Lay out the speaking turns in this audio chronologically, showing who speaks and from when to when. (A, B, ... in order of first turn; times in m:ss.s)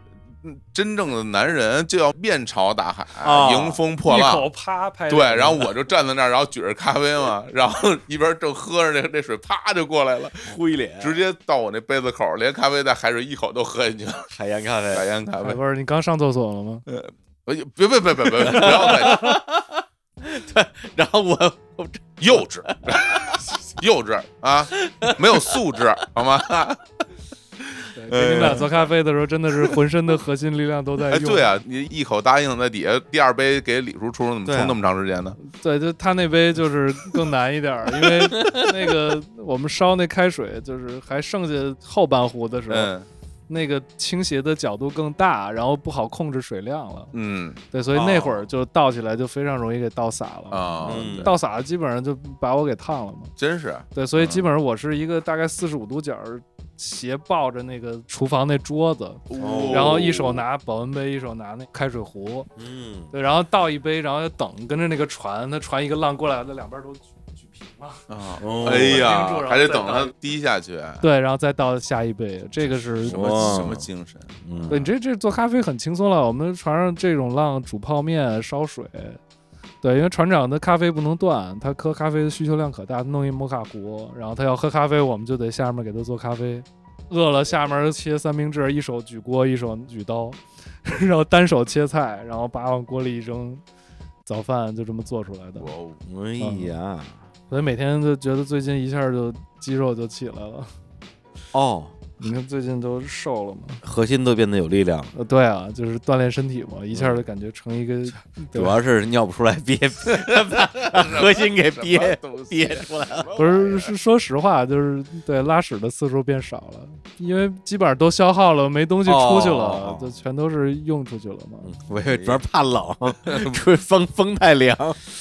0:00.4-0:04.5 A
0:03.2-0:03.8 B
0:04.0-0:05.7 C
0:05.1-0:14.3 A
0:10.4-0:11.2 B
0:14.3-0:15.1 B
0:14.9-0:15.6 A
0:15.4-0:16.8 C
0:16.9-0:19.4 A
0:18.4-0:23.6 B
0:18.6-0:19.4 C
0:22.2-0:26.8 A
0:24.7-0:25.6 B
0:28.0-0:31.5 C
0:28.1-0:28.9 A
0:28.2-0:28.7 B
0:31.1-0:35.4 A
0:34.4-0:34.8 B
0:35.4-0:42.9 C
0:38.4-0:38.8 B
0:42.7-0:43.1 A
0:43.5-0:47.1 C
0:47.1-0:48.4 A
0:47.7-0:53.3 C
0:50.5-0:51.3 A
0:50.8-0:51.4 B
0:53.4-0:54.5 A
0:54.0-1:02.5 C
0:59.3-1:00.1 A
0:59.4-1:00.4 B
1:02.6-1:03.1 B
1:03.1-1:10.1 C
1:08.1-1:11.0 A
1:08.4-1:09.1 B
1:11.0-1:13.7 C
1:13.0-1:14.9 A
1:13.1-1:13.9 B
1:14.4-1:14.9 B
1:14.7-1:19.2 C
1:19.8-1:33.6 C
1:34.3-1:35.7 C
1:35.6-1:36.0 A
1:36.0-1:37.2 B
1:36.4-1:36.8 C
1:37.5-1:40.7 C
1:41.5-1:41.9 B
1:42.2-1:43.8 C
1:43.8-1:45.1 B
1:45.2-1:48.8 C
1:46.9-1:47.2 B
1:48.5-1:53.3 B
1:50.1-1:53.9 A
1:53.4-2:01.7 C
1:59.1-2:00.1 B
2:01.6-2:05.0 B
2:02.0-2:02.4 A
2:03.3-2:03.6 A